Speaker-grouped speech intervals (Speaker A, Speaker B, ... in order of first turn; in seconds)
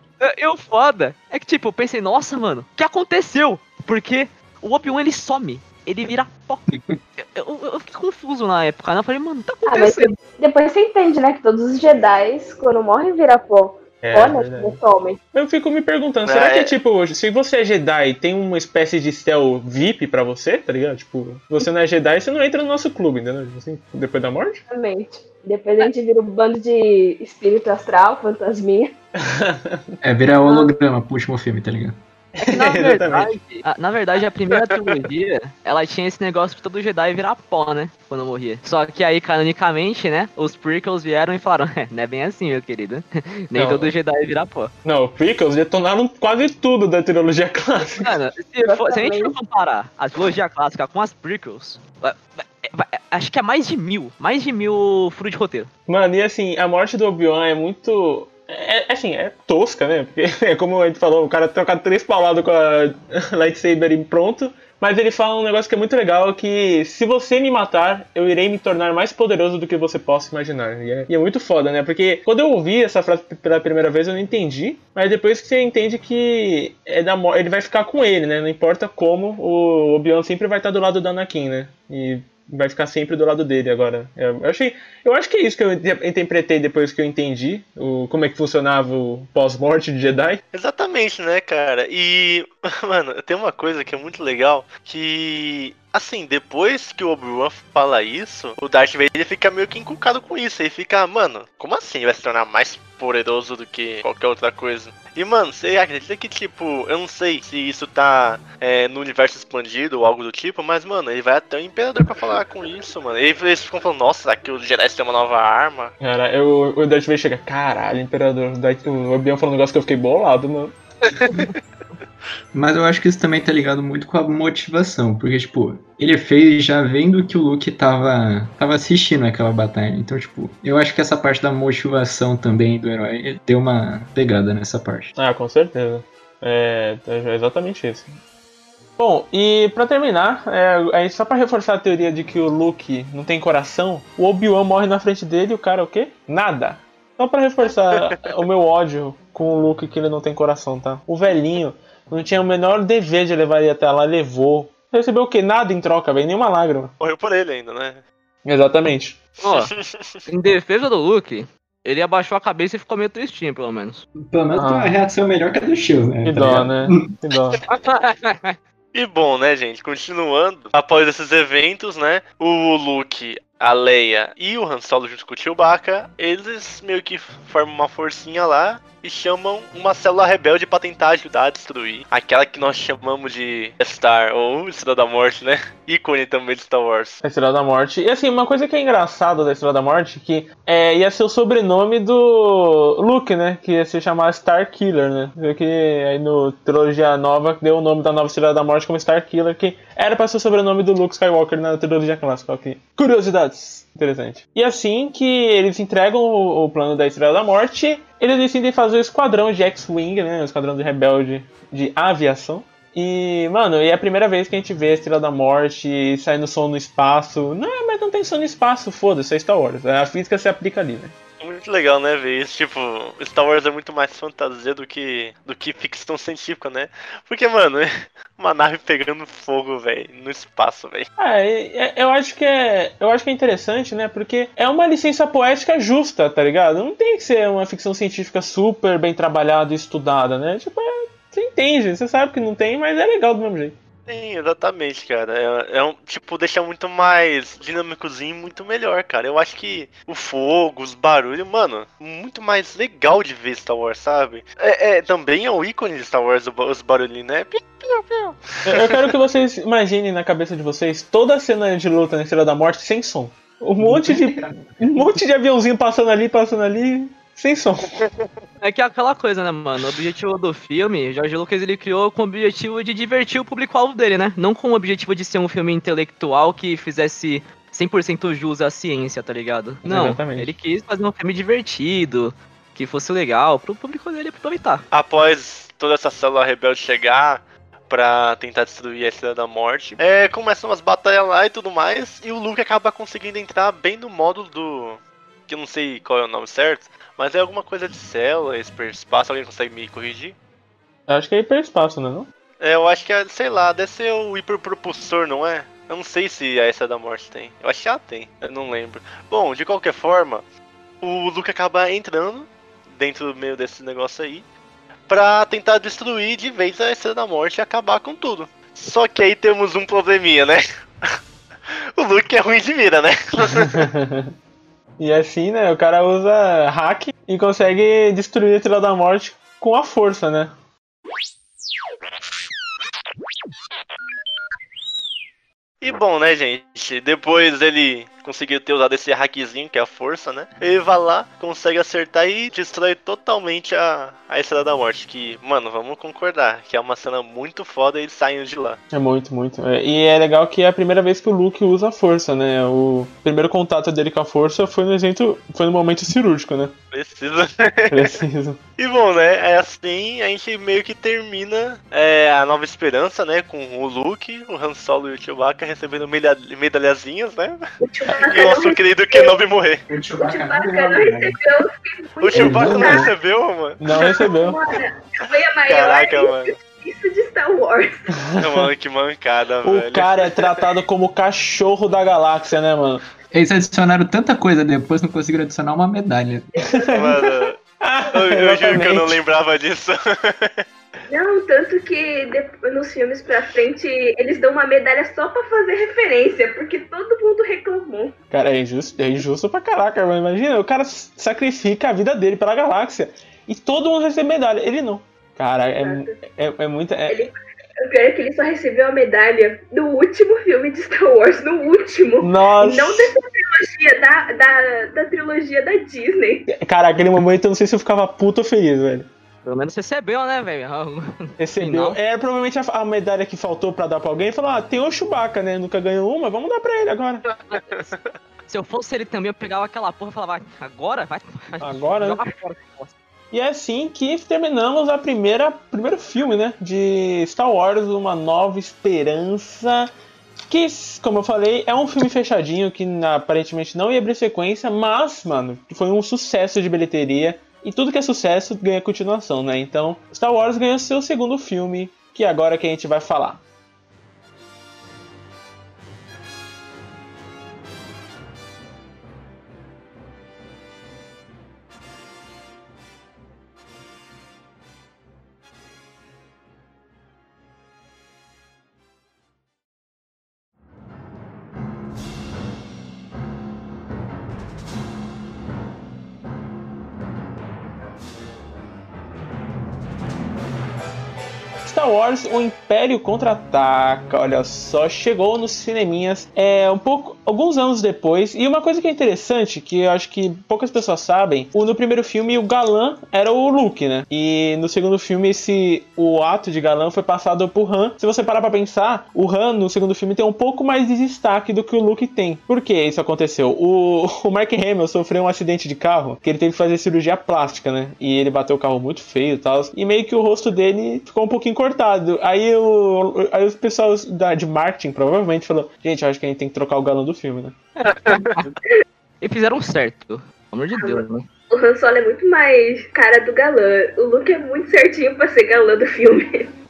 Speaker A: 0.2-10.1, 32.4-44.7, 48.0-55.7, 159.4-159.7, 160.3-164.1, 167.7-168.6, 268.6-284.8, 419.4-422.0, 427.5-427.9, 428.5-432.9, 517.8-518.5, 519.2-521.2
Speaker B: 6.7-7.0, 30.0-32.0, 122.5-135.1, 164.2-167.1, 263.8-265.2, 369.9-371.4, 372.3-373.0, 383.3-386.5
Speaker C: 9.7-15.2, 24.7-28.9, 30.4-30.7, 48.6-49.3, 367.8-369.4, 370.2-373.1, 373.9-378.1, 386.5-387.3, 391.1-398.2, 405.8-406.1, 407.1-416.5, 520.8-526.5
Speaker D: 14.0-14.8, 15.3-24.6, 29.2-29.8, 32.4-33.3, 43.5-43.9, 44.9-48.1, 55.9-90.4, 116.0-120.7, 135.2-138.1, 139.0-156.9, 158.4-159.2, 164.5-164.9, 166.2-167.6, 187.2-221.1, 231.2-243.8, 258.7-268.0, 279.8-280.5, 301.1-302.3, 323.6-324.3, 325.0-330.5, 348.9-356.7, 357.9-358.6, 372.5-373.1, 373.8-374.6, 378.3-378.7, 379.6-383.0, 386.7-387.2, 387.8-389.2, 398.3-407.2, 412.2-413.1, 416.5-419.1, 421.4-427.2, 431.6-432.2, 433.3-439.9, 440.5-453.4, 481.7-517.5
Speaker E: 16.3-16.8, 90.5-115.9, 121.1-121.5, 157.0-158.0, 159.4-160.2, 168.9-187.2, 221.4-231.1, 244.1-259.1, 284.9-300.4, 302.6-310.4, 311.0-314.5, 315.1-321.2, 322.0-323.9, 335.8-348.8, 356.9-358.1, 358.8-367.6, 368.1-369.8, 372.2-374.2, 375.7-376.5, 378.4-380.5, 386.9-387.6, 388.1-390.6, 427.4-428.1